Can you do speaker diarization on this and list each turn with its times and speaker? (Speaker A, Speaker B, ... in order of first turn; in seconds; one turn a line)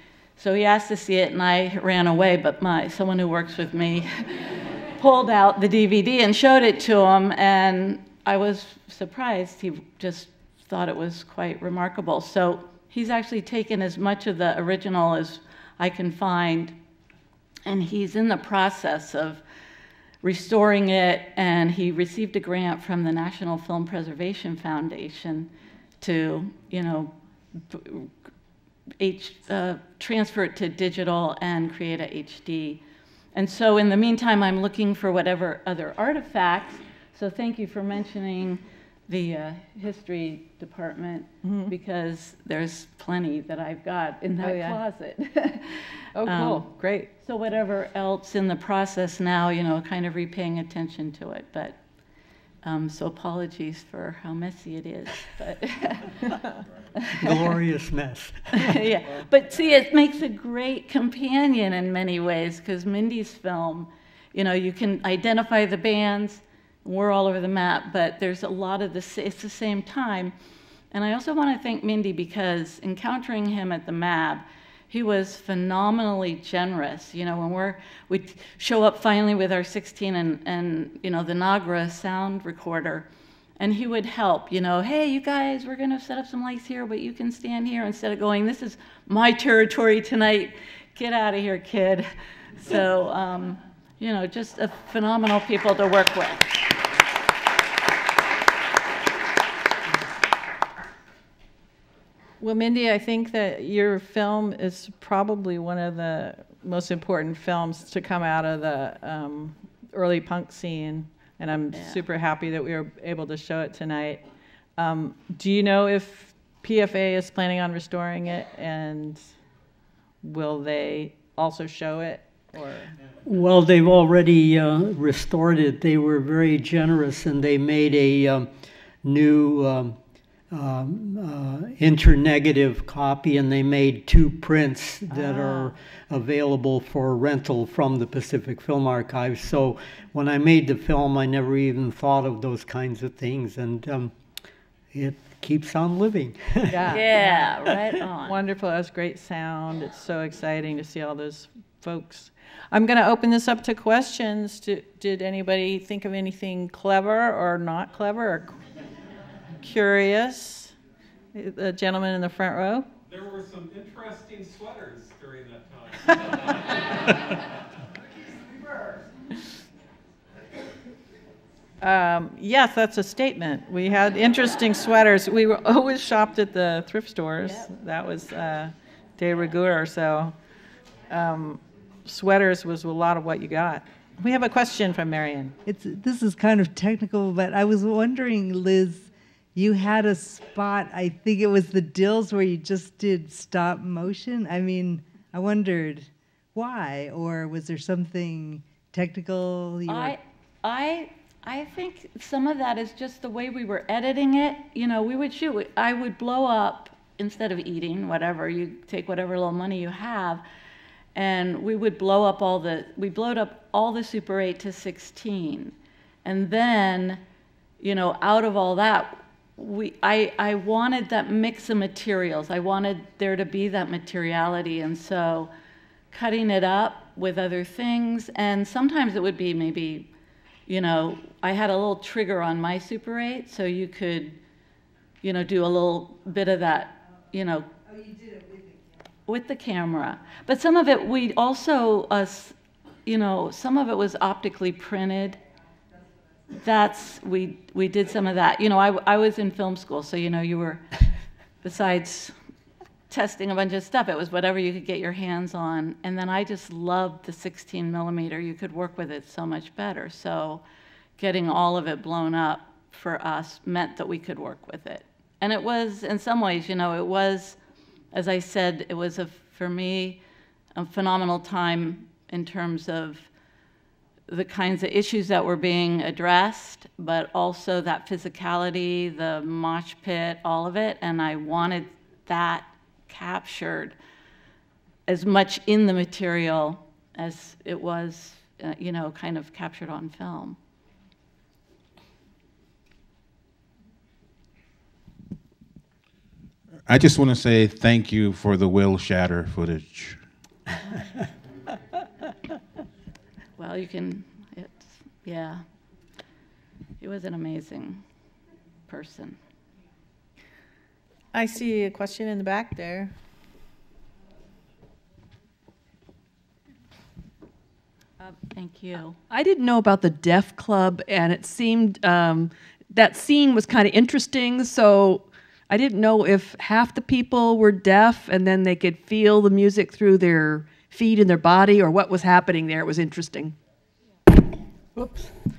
Speaker A: 0.4-16.7
Speaker A: 17.6-19.4
Speaker A: 20.2-25.5
Speaker A: 26.0-28.1
Speaker A: 29.0-32.8
Speaker A: 33.3-51.8
Speaker B: 41.4-41.7
Speaker B: 44.4-44.8
Speaker B: 46.1-47.1
Speaker A: 52.6-56.4
Speaker A: 57.1-57.5
Speaker C: 57.1-58.6
Speaker A: 58.6-70.3
Speaker A: 70.9-83.1
Speaker A: 83.6-92.0
Speaker A: 92.6-96.5
Speaker B: 102.4-114.2
Speaker A: 111.7-112.0
Speaker B: 114.8-119.2
Speaker B: 120.2-122.9
Speaker C: 123.2-128.5
Speaker C: 129.0-129.9
Speaker C: 130.5-144.1
Speaker A: 135.1-135.7
Speaker C: 144.9-147.0
Speaker B: 146.7-147.5
Speaker A: 146.9-148.4
Speaker B: 148.2-158.6
Speaker B: 159.6-160.7
Speaker B: 161.3-162.9
Speaker D: 163.1-166.3
Speaker B: 171.8-180.3
Speaker B: 181.1-185.5
Speaker E: 185.7-200.1
Speaker A: 199.8-210.4
Speaker A: 211.2-215.7
Speaker A: 216.2-217.2
Speaker A: 217.8-225.5
Speaker A: 226.1-230.1
Speaker A: 230.7-234.4
Speaker A: 235.2-237.7
Speaker A: 239.3-242.5
Speaker A: 243.1-245.4
Speaker A: 246.5-250.8
Speaker A: 251.6-252.3
Speaker A: 253.1-260.6
Speaker A: 261.2-267.6
Speaker A: 268.1-270.2
Speaker A: 270.8-273.3
Speaker A: 274.3-283.9
Speaker A: 285.1-290.6
Speaker F: 296.9-300.2
Speaker A: 303.6-305.6
Speaker A: 307.0-308.0
Speaker A: 308.9-309.4
Speaker B: 311.3-313.1
Speaker A: 318.2-319.2
Speaker G: 319.3-333.5
Speaker C: 334.9-335.3